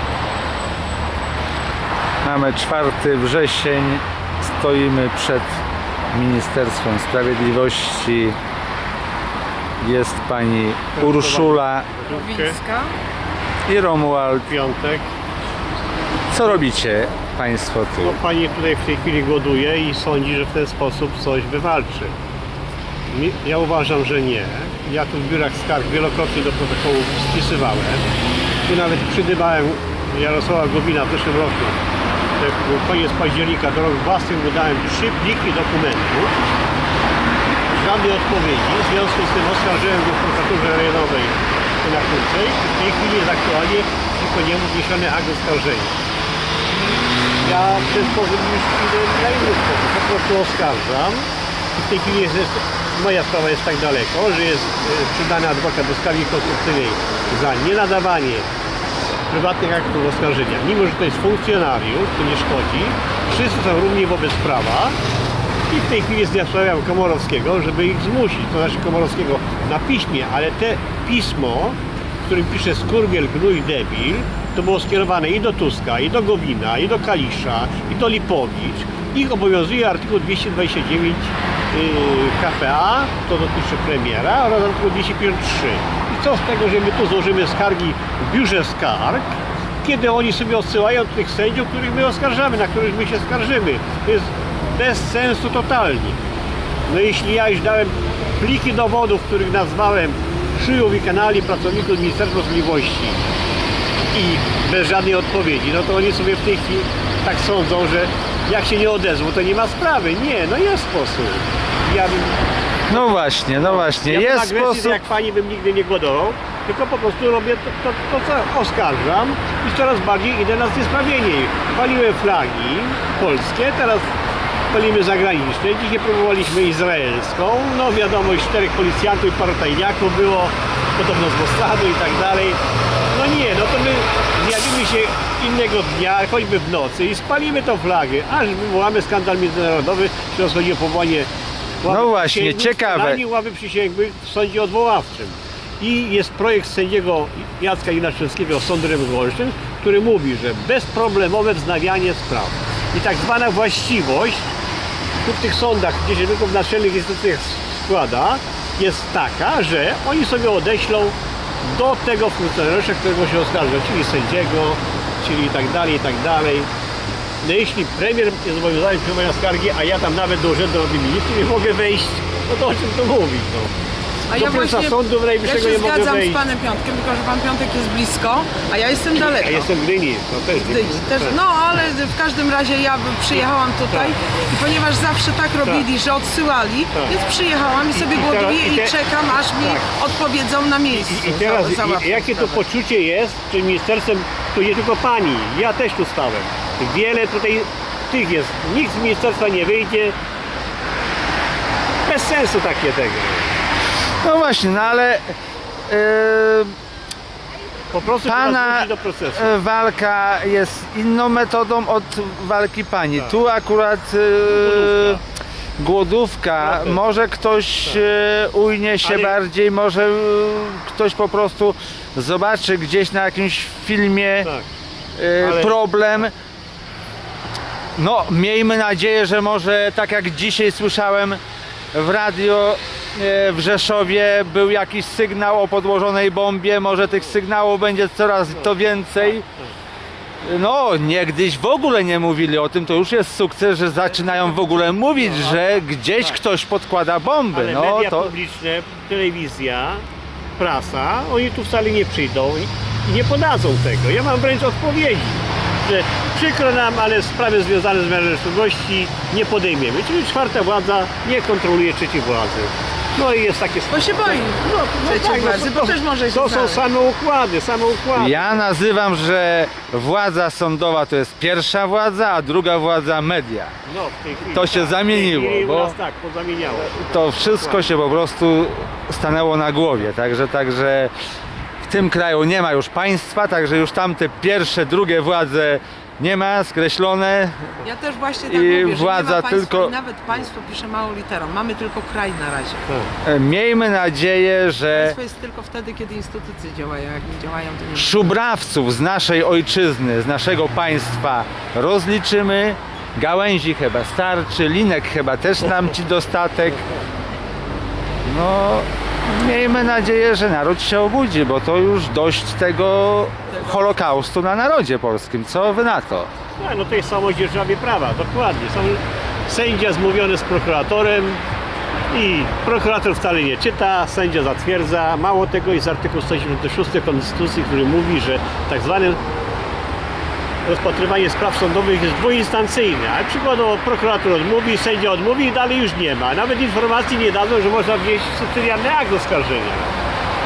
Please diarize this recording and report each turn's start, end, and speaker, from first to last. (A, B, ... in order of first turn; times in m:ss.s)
0:02.2-0:05.5 A
0:06.1-0:08.4 A
0:09.8-0:11.9 A
0:11.0-0:12.6 B
0:12.1-0:13.0 C
0:13.6-0:14.5 A
0:14.4-0:15.1 B
0:16.3-0:18.2 A
0:18.0-0:22.1 B
0:23.1-0:28.0 B
0:28.7-0:31.8 B
0:32.4-0:36.4 B
0:37.7-0:45.9 B
0:47.4-0:58.5 B
0:59.3-1:05.0 B
1:05.7-1:36.2 B
1:36.9-1:43.3 B
1:44.1-2:04.1 B
1:52.9-1:55.0 A
2:04.7-2:12.6 B
2:13.1-2:21.3 B
2:21.8-2:34.5 B
2:21.9-2:23.2 A
2:35.2-2:46.7 B
2:47.4-2:53.7 B
2:54.3-2:59.7 C
2:54.3-2:56.4 B
2:59.1-3:01.4 B
3:00.5-3:12.6 C
3:03.9-3:04.1 B
3:07.9-3:09.9 B
3:10.9-3:20.2 B
3:22.0-3:23.5 B
3:24.2-3:25.3 A
3:25.9-3:26.7 A
3:27.9-3:29.5 B
3:28.2-3:35.2 A
3:34.5-3:35.2 B
3:35.8-3:44.5 A
3:36.6-3:37.0 B
3:39.0-3:39.4 B
3:45.2-3:46.3 A
3:45.4-3:45.7 B
3:48.0-3:51.4 A
3:51.9-3:59.4 A
4:00.4-4:08.3 A
4:05.2-4:05.6 B
4:07.5-4:10.0 B
4:10.6-4:28.6 B
4:23.9-4:26.8 C
4:28.1-4:33.7 A
4:33.8-4:37.8 B
4:34.5-4:35.9 A
4:36.8-4:41.1 A
4:41.8-4:47.8 A
4:47.8-4:52.8 C
4:48.4-4:49.9 A
4:53.2-4:55.2 A
4:54.9-4:58.3 C
4:57.9-5:06.8 A
5:08.2-5:16.3 A
5:13.5-5:14.0 C
5:16.6-5:21.4 B
5:22.1-5:29.2 B
5:30.6-5:40.0 B